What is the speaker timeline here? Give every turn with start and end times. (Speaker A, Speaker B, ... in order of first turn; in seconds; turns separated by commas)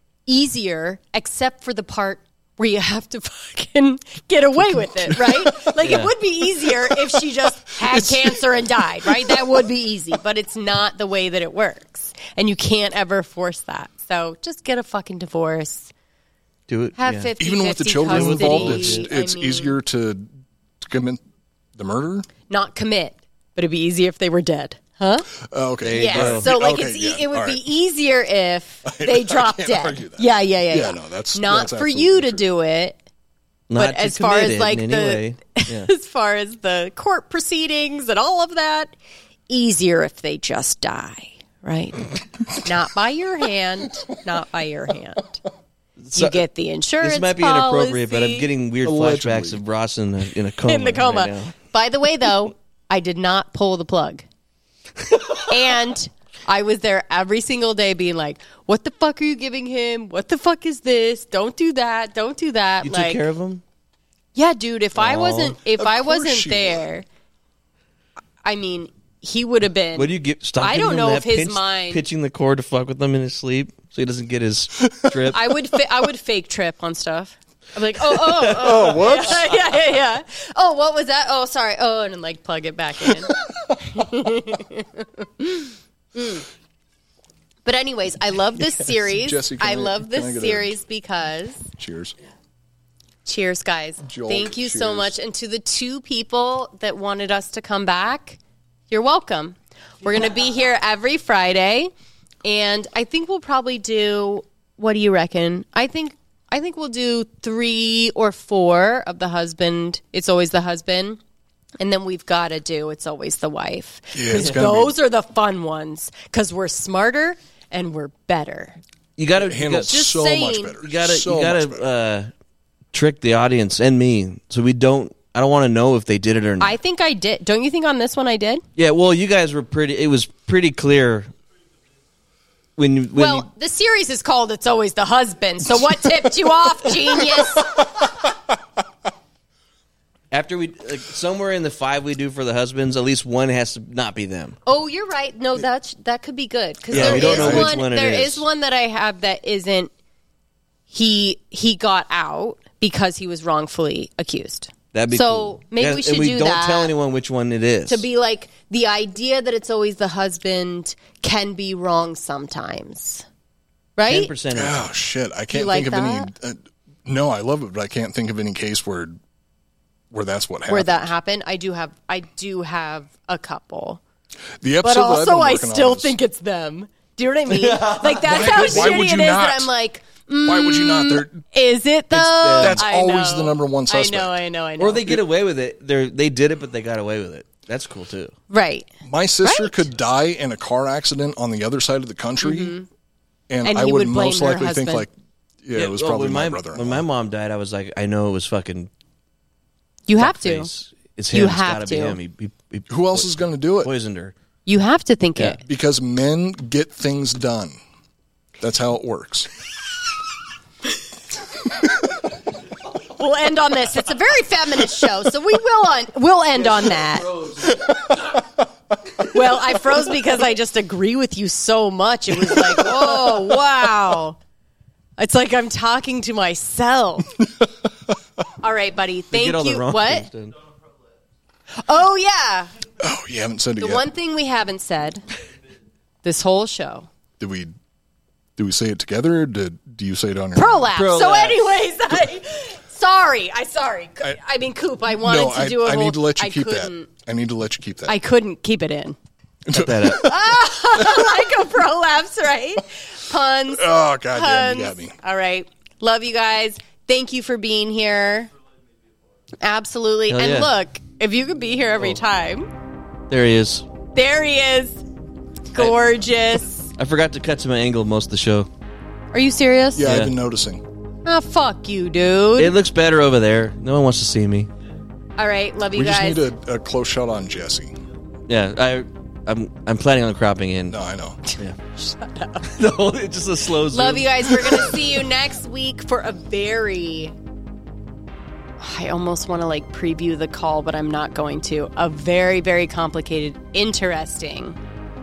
Speaker A: 0.3-15.9, Speaker B: 4.8-6.0, Speaker C: 5.8-6.1, Speaker B: 6.6-7.2, Speaker B: 7.8-9.6, Speaker C: 16.7-17.3, Speaker A: 17.0-19.8, Speaker B: 17.4-20.3, Speaker C: 18.0-19.1, Speaker B: 20.8-21.2, Speaker B: 21.8-22.3, Speaker A: 22.5-25.3, Speaker B: 25.5-27.6, Speaker C: 25.8-26.5, Speaker A: 25.9-33.0, Speaker B: 28.8-32.4, Speaker C: 33.7-35.9, Speaker A: 33.8-38.9, Speaker A: 39.5-45.4, Speaker C: 46.0-46.4, Speaker A: 46.1-48.5, Speaker C: 47.0-51.5, Speaker B: 48.8-49.6, Speaker A: 50.6-54.2, Speaker A: 55.5-63.2, Speaker C: 62.8-63.6, Speaker A: 64.3-67.0, Speaker C: 65.0-65.6, Speaker B: 65.8-66.8, Speaker A: 68.4-72.0, Speaker C: 70.0-75.4, Speaker A: 75.3-86.5, Speaker B: 78.6-79.5, Speaker C: 78.7-79.1, Speaker A: 87.6-91.6, Speaker B: 89.1-90.8, Speaker B: 91.8-92.2, Speaker A: 93.2-98.4, Speaker B: 94.0-95.1, Speaker A: 98.9-101.9, Speaker A: 102.4-111.2, Speaker A: 111.8-118.8, Speaker B: 114.1-115.0, Speaker C: 119.2-119.9, Speaker B: 119.3-121.9, Speaker A: 119.9-120.7, Speaker C: 120.8-122.3, Speaker C: 122.9-126.8, Speaker A: 126.6-128.6, Speaker C: 128.8-131.3, Speaker C: 132.8-133.5, Speaker A: 133.2-137.8, Speaker C: 140.3-144.6, Speaker A: 144.7-149.9, Speaker B: 146.9-147.8, Speaker C: 146.9-148.4, Speaker A: 150.9-156.9, Speaker C: 154.9-158.1, Speaker A: 157.9-163.2, Speaker A: 164.0-164.3, Speaker C: 164.1-164.8, Speaker B: 164.5-169.2, Speaker A: 165.5-166.3, Speaker B: 170.1-171.1, Speaker A: 170.7-174.0, Speaker B: 174.6-176.2, Speaker A: 174.8-185.2, Speaker C: 177.5-179.0, Speaker B: 178.3-179.7, Speaker B: 180.4-181.4, Speaker C: 182.1-182.8, Speaker B: 182.6-184.3, Speaker C: 184.8-188.3, Speaker A: 188.5-188.9, Speaker B: 189.0-192.8, Speaker A: 189.4-189.9, Speaker A: 192.4-192.9, Speaker B: 193.5-195.1, Speaker A: 193.6-195.1, Speaker B: 195.6-197.0, Speaker C: 195.8-198.9, Speaker A: 200.1-200.7, Speaker C: 200.2-204.3, Speaker A: 201.3-202.2, Speaker B: 202.9-203.9, Speaker A: 204.7-205.6, Speaker B: 205.7-207.8, Speaker B: 208.6-209.5, Speaker A: 213.1-217.3, Speaker B: 217.9-218.3, Speaker A: 219.2-224.4, Speaker A: 225.2-227.3, Speaker A: 228.6-230.3, Speaker C: 229.3-230.5, Speaker A: 231.7-232.7, Speaker B: 233.0-234.0, Speaker A: 233.8-235.2, Speaker A: 236.2-237.1, Speaker B: 237.4-237.7, Speaker B: 238.6-240.9, Speaker A: 240.5-247.1, Speaker C: 240.9-241.6, Speaker B: 245.2-248.2, Speaker A: 248.1-249.2, Speaker B: 249.7-251.3, Speaker C: 249.7-250.3, Speaker A: 250.2-258.5, Speaker B: 253.7-255.2, Speaker A: 259.6-262.7, Speaker C: 260.3-260.7, Speaker C: 263.3-263.9, Speaker A: 264.1-265.0, Speaker A: 265.7-266.9, Speaker C: 267.0-268.7, Speaker A: 269.3-270.1, Speaker B: 269.9-270.8, Speaker C: 270.1-270.3, Speaker A: 271.2-272.7, Speaker C: 272.6-274.7, Speaker A: 275.4-276.5, Speaker B: 275.9-277.9, Speaker C: 278.5-281.0, Speaker B: 280.9-281.4, Speaker A: 281.5-282.7, Speaker C: 282.7-284.9, Speaker A: 283.9-287.3, Speaker A: 288.8-294.8